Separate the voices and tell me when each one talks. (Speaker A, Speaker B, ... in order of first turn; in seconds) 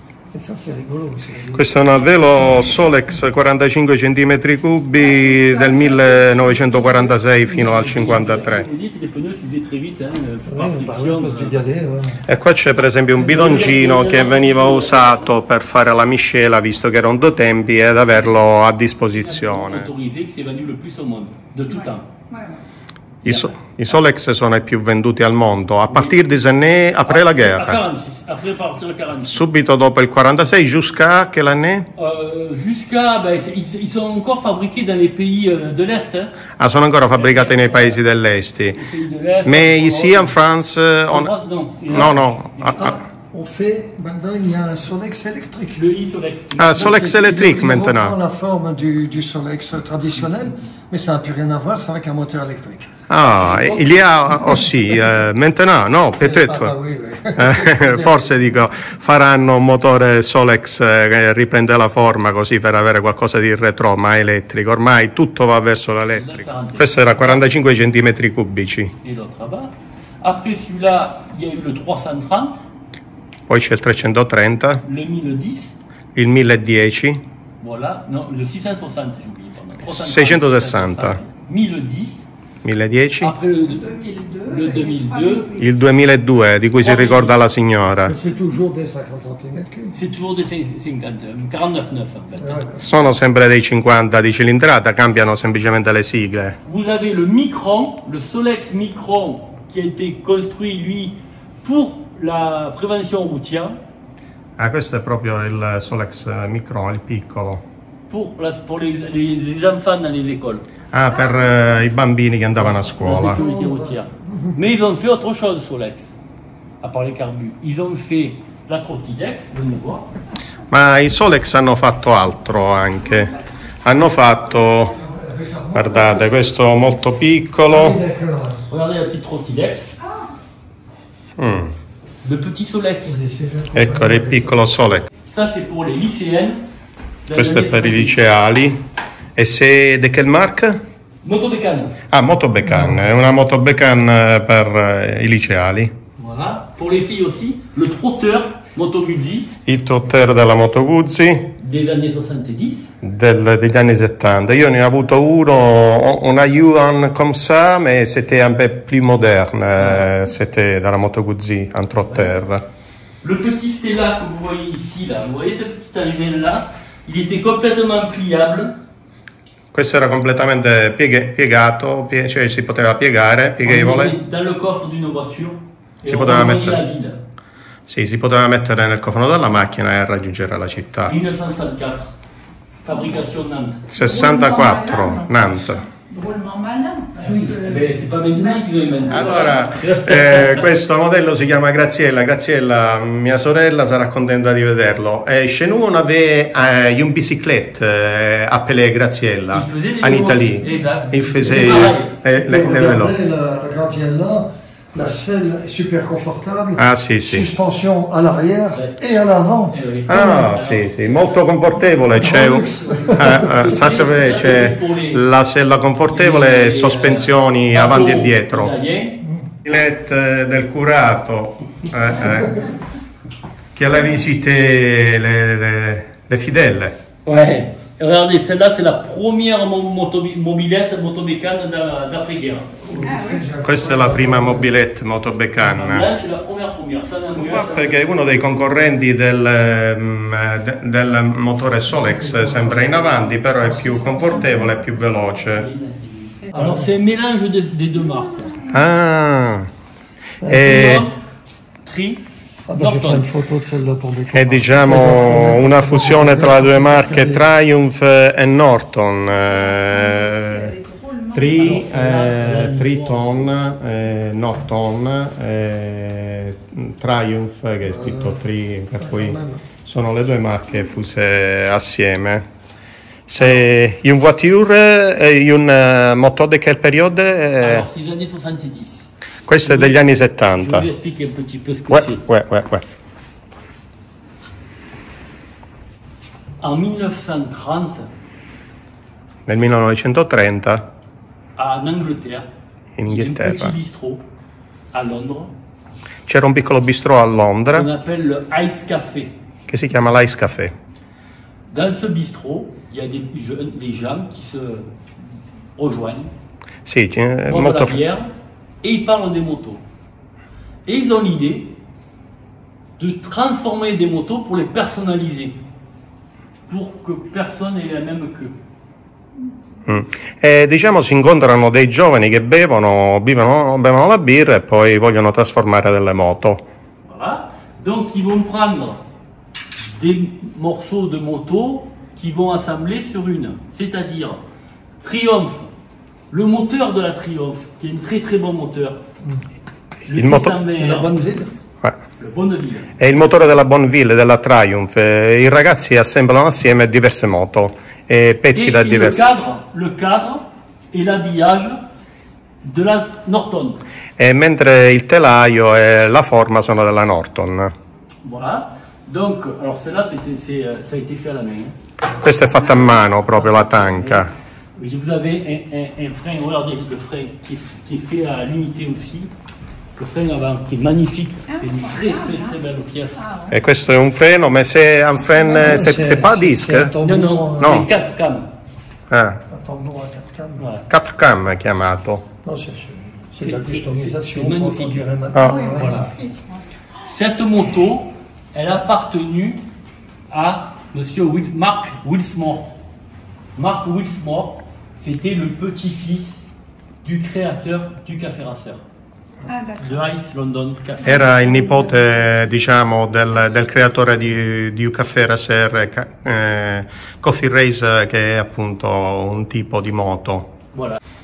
Speaker A: 0.3-1.7, 10.4-12.2, 43.3-45.8, 47.3-52.9, 56.2-58.3, 88.0-90.0, 92.4-92.8, 113.2-114.6, 125.0-126.5, 127.7-128.6, 133.1-134.7, 142.7-143.0, 187.2-187.6, 201.4-209.8, 212.2-213.7, 232.8-234.8, 241.9-244.8, 246.6-246.9, 250.4-251.1, 252.7-257.5, 267.8-268.4, 269.0-269.6, 340.6-341.5, 375.5-377.8, 379.5-380.6, 382.4-386.1
Speaker B: 1.6-8.7, 12.3-19.9, 23.2-27.8, 29.3-31.9, 36.6-38.8, 39.4-41.3, 41.9-43.0, 46.6-48.2, 53.1-56.8, 57.3-68.9, 73.5-74.8, 76.2-77.2, 79.8-81.2, 82.6-83.3, 85.6-88.2, 92.8-96.6, 104.6-107.6, 110.9-113.4, 120.7-125.0, 125.7-128.0, 131.4-131.7, 133.7-135.1, 137.3-138.8, 139.4-140.8, 142.1-145.9, 149.7-151.5, 153.0-162.7, 169.7-174.2, 176.1-176.8, 177.9-181.2, 183.9-185.8, 189.1-203.2, 206.8-207.5, 210.1-218.8, 219.6-222.7, 223.8-227.0, 233.7-236.1, 237.3-245.7, 248.7-249.7, 250.4-251.1, 254.3-260.7, 261.3-272.5, 273.3-277.9, 279.5-280.9, 281.9-282.9, 289.5-290.8, 293.0-293.7, 296.3-297.9, 299.7-300.7, 306.9-308.0, 319.9-326.6, 340.1-340.6, 343.0-349.2, 354.2-357.7, 362.1-364.3, 373.5-377.0, 377.6-377.9, 379.1-379.4, 380.9-382.2, 385.3-385.8, 401.0-410.6
Speaker C: 5.0-7.2, 21.7-22.6, 83.7-85.7, 123.2-123.4, 130.0-130.3, 183.9-189.6, 233.0-233.4, 259.4-261.9, 371.5-372.6, 373.2-373.6, 385.4-386.6, 399.4-400.0, 401.1-402.1
Speaker D: 7.5-11.6, 13.2-15.3, 19.2-22.1, 23.3-23.5, 27.1-29.4, 32.0-36.4, 37.1-38.0, 38.8-40.4, 41.1-43.0, 45.8-47.7, 53.4-54.6, 66.1-67.5, 69.0-72.6, 74.8-75.8, 77.6-82.3, 83.2-83.9, 84.5-85.5, 86.8-87.4, 89.9-92.6, 96.7-103.8, 108.1-110.7, 113.0-116.1, 116.8-120.1, 128.7-129.9, 132.2-133.2, 135.3-136.6, 137.3-138.2, 141.2-142.0, 146.2-149.5, 151.6-152.9, 159.8-160.1, 162.1-162.3, 163.2-168.8, 173.6-177.2, 181.1-182.1, 182.8-183.9, 187.2-190.7, 199.5-203.1, 208.7-211.4, 213.2-215.2, 216.1-219.2, 227.2-232.8, 235.6-238.5, 245.4-248.6, 250.5-251.2, 251.8-252.2, 252.8-253.3, 261.5-263.6, 277.6-282.2, 286.6-288.1, 291.6-292.5, 293.1-294.2, 294.9-295.5, 297.7-299.3, 301.7-304.9, 305.8-306.3, 307.5-308.3, 308.8-309.8, 310.9-311.8, 313.0-315.6, 316.7-318.6, 327.1-329.0, 329.8-334.4, 335.0-335.7, 336.3-339.0, 340.1-341.3, 342.2-343.0, 348.5-351.8, 352.6-353.8, 358.2-361.8, 363.0-369.3, 370.0-373.3, 377.0-378.5, 380.6-380.9, 383.4-385.1, 385.8-386.1, 387.0-389.6, 390.3-392.8, 393.6-396.4, 397.0-398.8, 399.8-401.4, 410.7-411.0